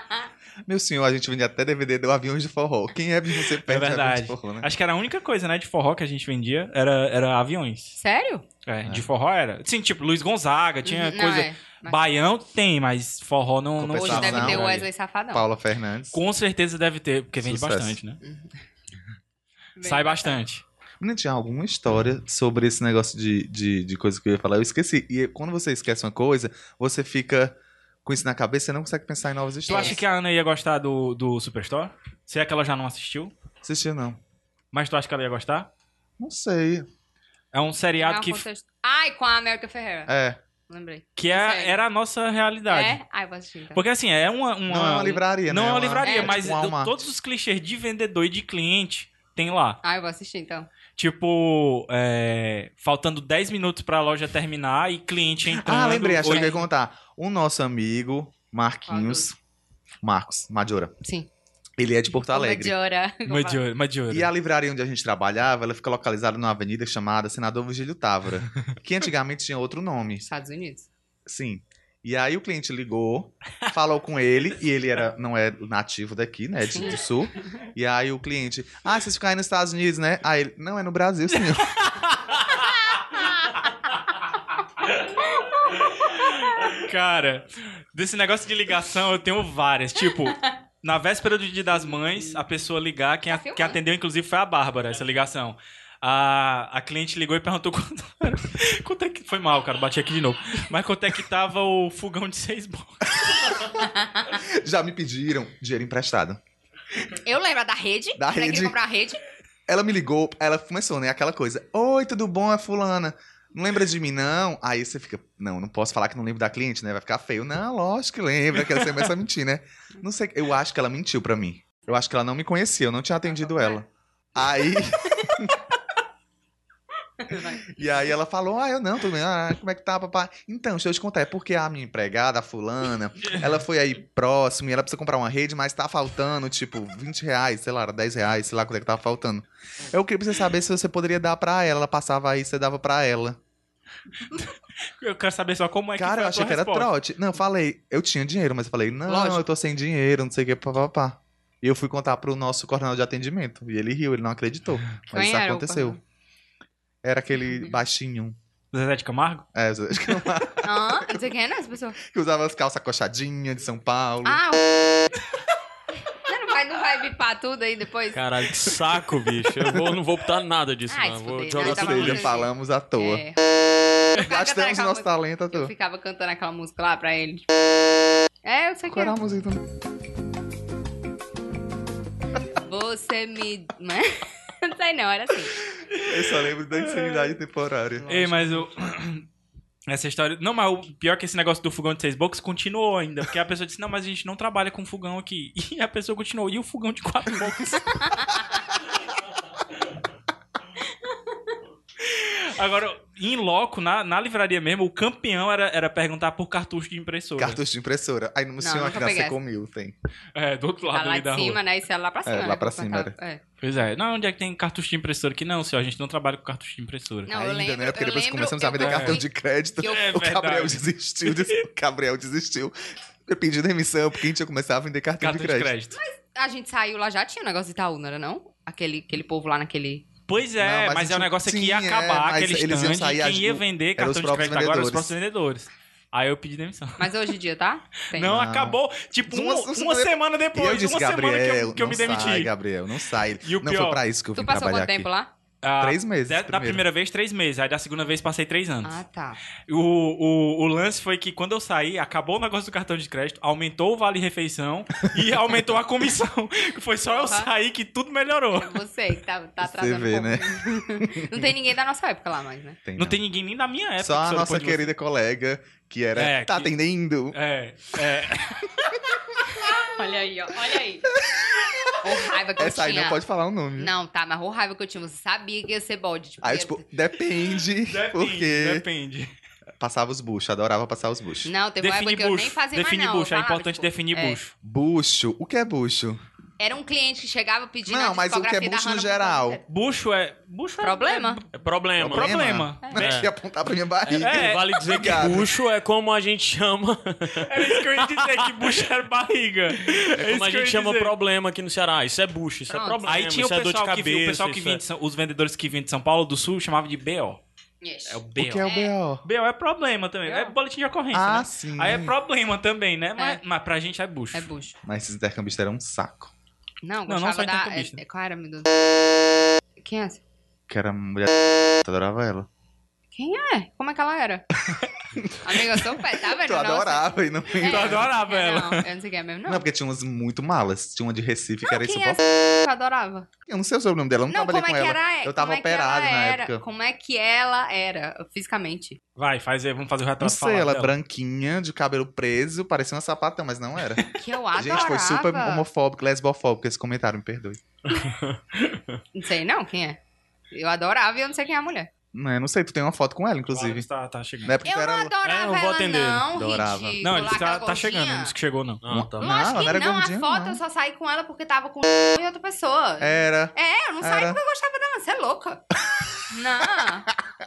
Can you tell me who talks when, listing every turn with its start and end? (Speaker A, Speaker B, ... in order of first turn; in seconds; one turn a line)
Speaker A: 0.7-4.7
Speaker B: 3.7-8.0
Speaker C: 8.0-8.4
Speaker B: 8.7-14.8
Speaker C: 10.8-12.1
Speaker A: 13.8-16.2
Speaker C: 13.9-15.4
Speaker B: 16.1-18.2
Speaker A: 17.4-18.0
Speaker C: 18.2-18.5
Speaker C: 19.8-20.4
Speaker B: 19.8-20.6
Speaker A: 21.0-30.0
Speaker C: 29.6-30.0
Speaker B: 29.7-33.3
Speaker A: 33.6-34.2
Speaker B: 34.7-35.7
Speaker A: 36.2-36.9
Speaker B: 37.5-38.4
Speaker C: 38.0-40.1
Speaker A: 40.1-40.4
Speaker C: 40.7-41.8
Speaker B: 41.2-43.0
Speaker C: 42.7-43.8
Speaker B: 43.7-49.8
Speaker A: 44.7-47.0
Speaker C: 46.0-46.5
Speaker C: 49.8-50.7
Speaker B: 51.0-56.6
Speaker A: 55.5-59.3
Speaker C: 56.3-56.6
Speaker C: 58.9-59.3
Speaker A: 60.0-60.9
Speaker C: 61.0-61.3
Speaker A: 61.8-62.7
Speaker C: 62.1-63.6
Speaker B: 63.3-64.3
Speaker A: 64.1-70.2
Speaker C: 70.2-70.9
Speaker A: 71.2-81.7
Speaker C: 76.8-77.5
Speaker B: 81.4-82.7
Speaker C: 85.4-85.7
Speaker B: 86.8-103.2
Speaker C: 91.7-92.4
Speaker C: 93.3-93.8
Speaker A: 103.2-103.7
Speaker C: 103.8-104.3
Speaker A: 104.3-106.4
Speaker C: 107.2-109.2
Speaker A: 108.2-108.8
Speaker A: 109.7-125.5
Speaker C: 123.4-123.8
Speaker C: 127.2-127.8
Speaker A: 127.8-143.4
Speaker B: 145.0-146.9
Speaker A: 145.9-156.0
Speaker C: 155.1-156.0
Speaker A: 157.0-158.3
Speaker C: 157.3-157.8
Speaker B: 158.7-159.4
Speaker A: 159.5-160.8
Speaker C: 160.6-162.0
Speaker A: 162.0-164.4
Speaker C: 164.2-165.1
Speaker C: 166.1-168.2
Speaker D: 168.1-172.4
Speaker C: 170.9-173.4
Speaker A: 171.6-173.2
Speaker C: 174.1-177.4
Speaker A: 174.2-175.7
Speaker C: 178.4-179.2
Speaker A: 178.8-179.6
Speaker C: 182.6-185.6
Speaker A: 186.0-188.3
Speaker B: 188.1-189.2
Speaker B: 189.9-198.4
Speaker B: 202.0-207.6
Speaker A: 207.3-209.9
Speaker C: 208.6-209.3
Speaker B: 210.3-211.6
Speaker C: 210.9-213.4
Speaker A: 212.2-213.1
Speaker B: 213.6-217.3
Speaker C: 217.2-219.3
Speaker A: 217.3-222.7
Speaker B: 218.8-219.2
Speaker B: 219.8-221.5
Speaker A: 223.2-225.7
Speaker B: 225.2-226.0
Speaker C: 225.9-230.0
Speaker B: 230.3-237.1
Speaker A: 230.6-235.1
Speaker C: 237.0-238.4
Speaker B: 238.2-242.5
Speaker A: 238.2-238.8
Speaker A: 239.3-245.1
Speaker B: 243.4-244.0
Speaker C: 244.3-245.3
Speaker B: 245.6-249.0
Speaker A: 245.8-246.8
Speaker C: 248.8-249.4
Speaker B: 249.7-258.7
Speaker C: 257.1-257.5
Speaker C: 258.5-262.8
Speaker A: 259.6-261.4
Speaker A: 262.9-263.2
Speaker B: 263.0-264.9
Speaker A: 264.0-267.4
Speaker B: 266.1-266.7
Speaker B: 267.3-268.8
Speaker C: 269.5-271.1
Speaker A: 271.1-272.0
Speaker C: 272.0-273.2
Speaker A: 272.6-273.9
Speaker C: 273.8-276.8
Speaker A: 276.4-278.8
Speaker B: 277.9-279.3
Speaker A: 279.8-281.5
Speaker C: 281.4-284.4
Speaker B: 281.8-284.5
Speaker A: 284.6-286.2
Speaker C: 286.6-289.6
Speaker A: 287.9-289.6
Speaker B: 289.7-291.4
Speaker C: 290.8-291.4
Speaker D: 291.5-292.4
Speaker A: 292.0-295.5
Speaker B: 292.0-292.8
Speaker D: 292.9-293.3
Speaker D: 294.1-298.8
Speaker B: 294.1-294.8
Speaker B: 297.4-301.1
Speaker D: 299.9-304.8
Speaker C: 302.7-303.2
Speaker B: 303.0-307.4
Speaker C: 307.8-308.9
Speaker B: 308.1-308.6
Speaker A: 308.3-309.2
Speaker B: 309.2-314.4
Speaker C: 310.2-310.5
Speaker A: 311.1-312.1
Speaker C: 314.3-314.8
Speaker A: 314.8-316.3
Speaker C: 316.8-318.7
Speaker B: 317.1-318.0
Speaker C: 319.8-320.2
Speaker A: 320.7-321.3
Speaker A: 321.8-322.5
Speaker C: 323.1-324.4
Speaker A: 325.1-325.8
Speaker C: 325.4-329.6
Speaker A: 326.4-328.1
Speaker B: 327.6-328.8
Speaker A: 329.5-332.2
Speaker C: 331.6-333.3
Speaker A: 333.5-336.6
Speaker C: 334.3-339.0
Speaker B: 339.2-340.9
Speaker A: 340.2-344.1
Speaker C: 344.2-345.6
Speaker A: 344.6-347.6
Speaker D: 347.9-349.0
Speaker C: 349.1-350.0
Speaker C: 350.5-351.9
Speaker A: 352.1-353.9
Speaker B: 353.5-354.5
Speaker A: 354.4-355.1
Speaker C: 354.6-358.3
Speaker D: 355.2-356.3
Speaker A: 356.3-357.0
Speaker B: 357.0-358.8
Speaker D: 358.8-359.3
Speaker A: 358.9-360.6
Speaker C: 359.2-365.6
Speaker A: 363.0-364.4
Speaker C: 366.3-367.1